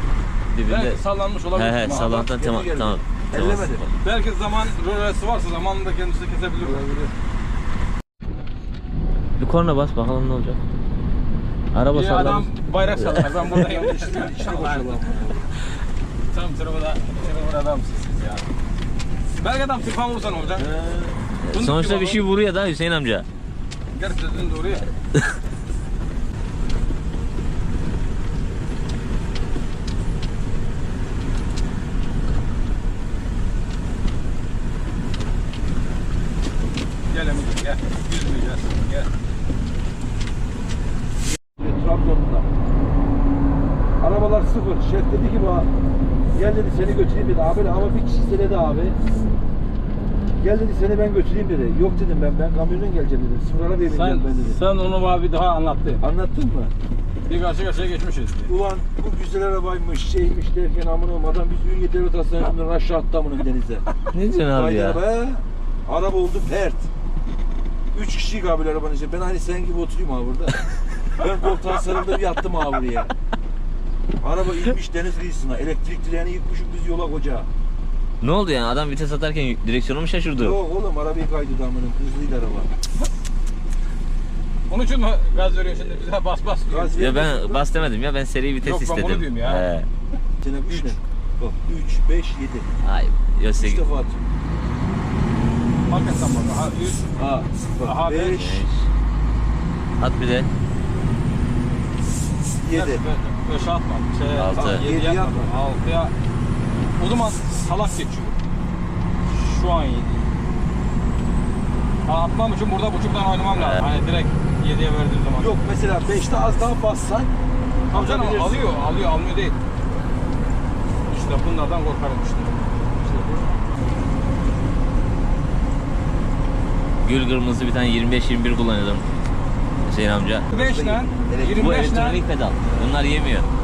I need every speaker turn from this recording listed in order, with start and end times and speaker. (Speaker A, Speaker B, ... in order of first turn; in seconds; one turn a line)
Speaker A: 0.5-1.0
Speaker B: 0.7-2.1
Speaker A: 1.5-3.9
Speaker C: 1.9-3.9
Speaker B: 4.0-7.0
Speaker C: 6.6-7.1
Speaker A: 9.4-10.6
Speaker A: 11.7-12.5
Speaker B: 11.9-15.0
Speaker A: 13.1-13.5
Speaker C: 13.6-15.5
Speaker B: 16.3-18.5
Speaker B: 19.4-20.7
Speaker C: 20.6-21.2
Speaker A: 21.4-23.3
Speaker B: 21.5-22.2
Speaker B: 23.9-24.9
Speaker B: 37.1-39.1
Speaker C: 41.5-42.5
Speaker C: 44.0-45.7
Speaker C: 46.3-49.0
Speaker C: 50.4-54.6
Speaker B: 53.9-56.0
Speaker C: 56.0-56.7
Speaker B: 57.3-58.5
Speaker C: 58.5-63.9
Speaker A: 64.1-65.0
Speaker C: 64.5-66.9
Speaker C: 67.9-70.6
Speaker C: 71.1-73.1
Speaker C: 74.2-77.5
Speaker A: 78.2-80.6
Speaker C: 80.4-82.7
Speaker B: 84.7-87.0
Speaker C: 86.7-87.7
Speaker A: 87.0-89.9
Speaker B: 88.6-89.7
Speaker C: 90.4-92.7
Speaker B: 90.7-91.0
Speaker A: 92.8-93.8
Speaker C: 93.6-94.2
Speaker B: 95.9-97.1
Speaker C: 97.2-98.6
Speaker B: 97.8-98.4
Speaker A: 98.3-98.9
Speaker A: 100.0-100.5
Speaker C: 102.6-103.0
Speaker B: 102.7-106.1
Speaker A: 104.3-104.8
Speaker C: 104.5-105.5
Speaker B: 107.0-108.4
Speaker B: 109.3-110.3
Speaker B: 112.0-115.5
Speaker A: 113.5-113.9
Speaker C: 115.4-117.4
Speaker B: 117.9-119.6
Speaker C: 117.9-118.7
Speaker B: 121.1-122.5
Speaker C: 123.0-123.6
Speaker A: 127.0-129.1
Speaker A: 129.8-130.5
Speaker C: 130.5-131.8
Speaker B: 130.5-132.2
Speaker A: 131.5-133.5